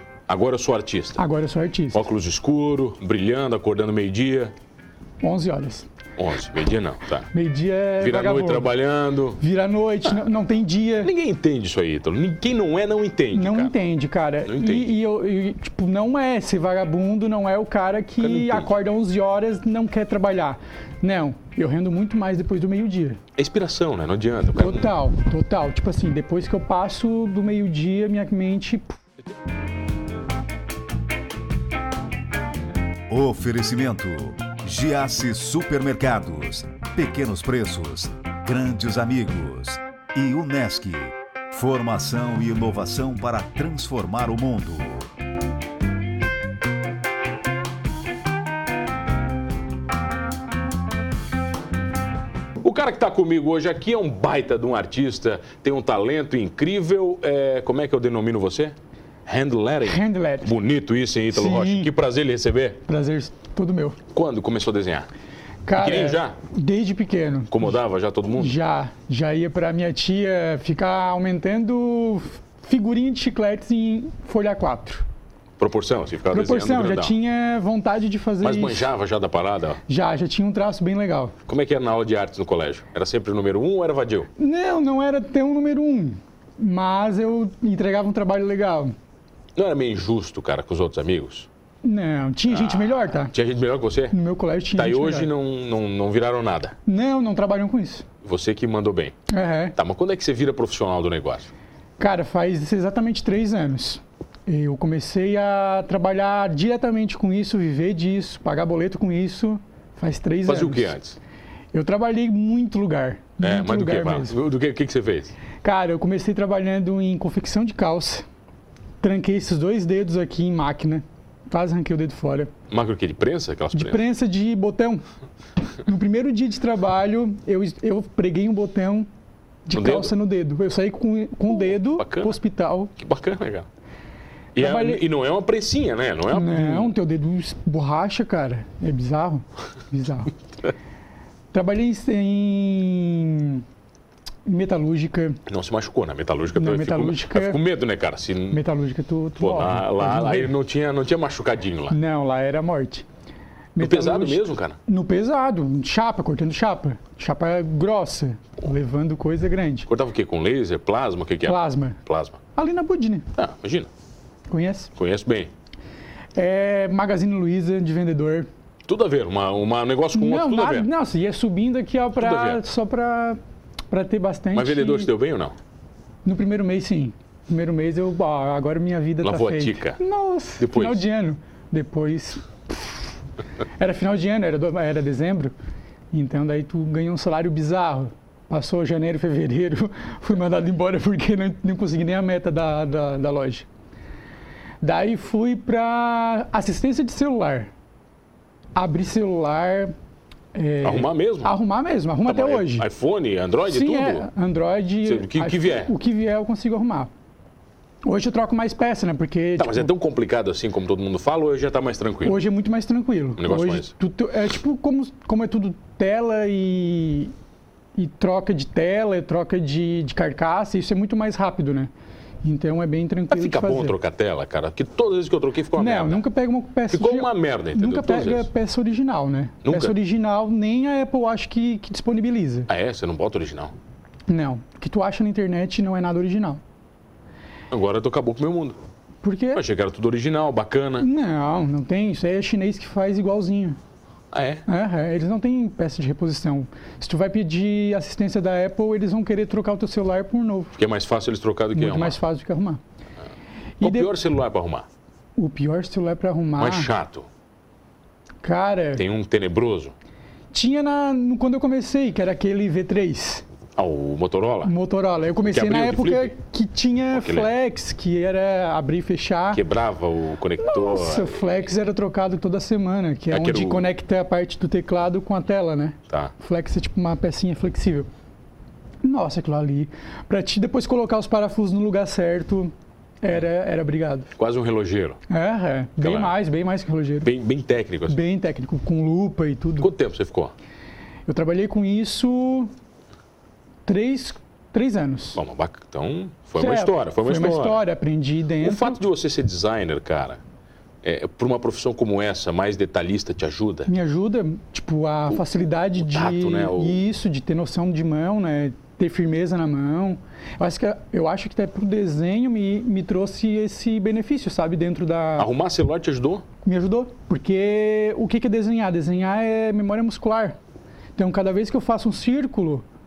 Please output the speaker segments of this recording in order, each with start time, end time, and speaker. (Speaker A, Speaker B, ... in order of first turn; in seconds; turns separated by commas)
Speaker A: 0.3-1.2, Speaker B: 1.2-2.0, Speaker A: 1.9-4.5, Speaker B: 5.2-5.9, Speaker A: 6.2-7.3, Speaker B: 7.3-8.7, Speaker A: 8.0-9.4, Speaker B: 9.4-11.1, Speaker A: 11.0-13.7, Speaker B: 13.3-23.2, Speaker A: 14.4-14.9, Speaker A: 18.2-18.7, Speaker A: 23.4-24.9, Speaker B: 24.5-29.0, Speaker C: 33.1-45.1, Speaker A: 52.6-58.8, Speaker A: 59.3-62.8, Speaker B: 59.9-60.5, Speaker B: 61.3-61.9, Speaker B: 62.9-64.0, Speaker A: 64.1-65.1, Speaker B: 65.7-67.8, Speaker A: 65.8-66.4, Speaker A: 67.5-68.5, Speaker B: 68.4-75.0, Speaker A: 75.6-77.2, Speaker B: 76.3-78.9, Speaker A: 78.4-79.8, Speaker B: 79.9-81.3, Speaker A: 81.5-84.3, Speaker B: 84.4-89.0, Speaker A: 89.6-91.5, Speaker B: 91.8-93.3, Speaker A: 92.5-94.2, Speaker B: 94.1-95.3, Speaker A: 94.8-96.8, Speaker B: 96.9-98.1, Speaker A: 98.2-99.2, Speaker B: 99.3-99.8, Speaker A: 99.8-101.5, Speaker B: 102.0-110.9, Speaker A: 110.5-111.2, Speaker B: 111.7-114.4, Speaker A: 113.4-115.3, Speaker B: 115.6-118.3, Speaker B: 119.0-122.5, Speaker A: 122.7-124.0, Speaker B: 123.7-125.0, Speaker B: 125.8-129.1, Speaker B: 129.7-132.9, Speaker A: 129.7-130.1, Speaker A: 131.8-132.4, Speaker A: 133.0-133.7, Speaker A: 134.6-137.0, Speaker B: 134.6-135.0, Speaker B: 136.3-140.3, Speaker B: 141.5-143.6, Speaker B: 144.4-145.4, Speaker A: 145.5-148.6, Speaker B: 146.6-147.6, Speaker B: 148.5-150.5, Speaker A: 149.4-152.0, Speaker B: 151.9-153.1, Speaker B: 153.8-159.9, Speaker A: 153.8-154.8, Speaker A: 159.9-162.4, Speaker B: 161.5-162.0, Speaker B: 162.6-163.3, Speaker A: 163.3-163.9, Speaker B: 164.5-164.9, Speaker A: 165.0-165.5, Speaker B: 166.3-168.5, Speaker A: 168.9-170.9, Speaker B: 170.1-173.4, Speaker A: 172.2-172.6, Speaker B: 173.9-175.1, Speaker A: 174.5-175.6, Speaker B: 176.2-183.1, Speaker A: 179.2-180.0, Speaker A: 180.6-181.0, Speaker B: 183.8-185.5, Speaker B: 186.1-193.7, Speaker B: 194.8-197.7, Speaker B: 198.8-199.9, Speaker B: 200.5-202.9, Speaker A: 200.8-201.5, Speaker A: 202.3-204.3, Speaker B: 203.7-207.1, Speaker A: 205.1-205.9, Speaker B: 208.0-209.9, Speaker A: 209.6-212.4, Speaker B: 212.2-217.3, Speaker A: 213.4-213.9, Speaker B: 218.0-221.9, Speaker B: 222.4-223.9, Speaker A: 223.3-226.2, Speaker B: 225.8-232.7, Speaker A: 226.9-228.5, Speaker A: 229.6-229.9, Speaker A: 232.7-233.7, Speaker B: 234.3-236.6, Speaker A: 237.7-238.8, Speaker B: 239.2-239.6, Speaker A: 239.5-241.1, Speaker B: 241.0-243.8, Speaker A: 244.3-244.6, Speaker B: 244.7-250.8, Speaker A: 250.8-252.2, Speaker B: 251.8-252.8, Speaker B: 253.8-254.2, Speaker A: 253.8-254.9, Speaker B: 255.4-256.9, Speaker A: 256.6-257.3, Speaker B: 258.4-259.0, Speaker A: 259.0-259.9, Speaker B: 260.5-263.4, Speaker A: 263.8-264.7, Speaker B: 264.6-269.6, Speaker A: 265.4-266.4, Speaker A: 267.1-267.5, Speaker A: 269.5-271.7, Speaker B: 270.6-278.1, Speaker A: 273.3-273.9, Speaker B: 279.0-284.3, Speaker A: 284.4-285.2, Speaker B: 285.3-287.3, Speaker A: 286.0-286.4, Speaker A: 287.2-288.2, Speaker B: 288.1-289.9, Speaker A: 289.8-290.5, Speaker B: 291.3-292.7, Speaker B: 293.9-295.4, Speaker A: 295.4-297.8, Speaker B: 296.6-299.0, Speaker A: 298.6-300.4, Speaker A: 301.0-303.9, Speaker B: 303.9-315.5, Speaker A: 306.0-307.0, Speaker A: 315.4-316.5, Speaker B: 316.6-320.6, Speaker B: 321.2-322.9